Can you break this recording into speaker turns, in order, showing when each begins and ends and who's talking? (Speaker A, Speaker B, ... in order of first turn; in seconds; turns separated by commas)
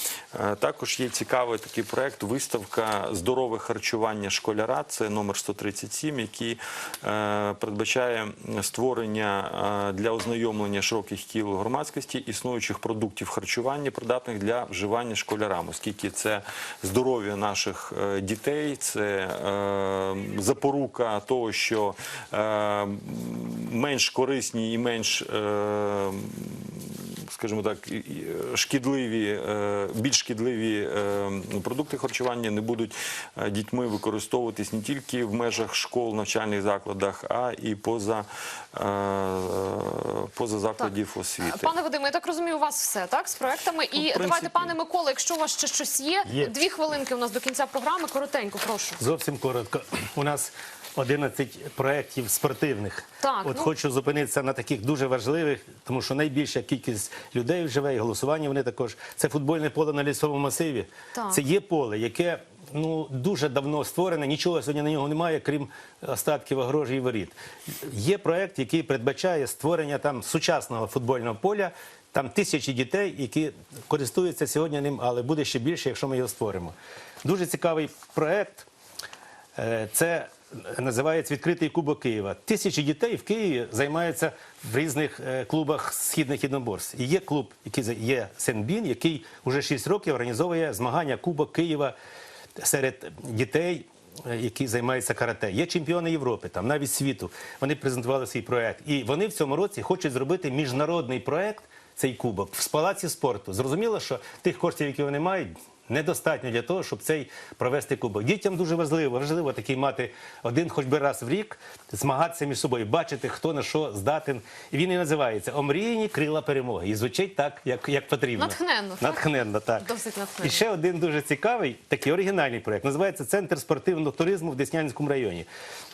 Speaker A: 0.3-41.7, Speaker B: 41.4-49.0, Speaker A: 44.0-44.7, Speaker C: 46.3-46.5, Speaker C: 49.0-78.7, Speaker B: 53.2-53.7, Speaker B: 61.1-61.4, Speaker C: 79.6-91.9, Speaker C: 92.6-119.9, Speaker B: 118.4-120.6, Speaker C: 120.4-125.5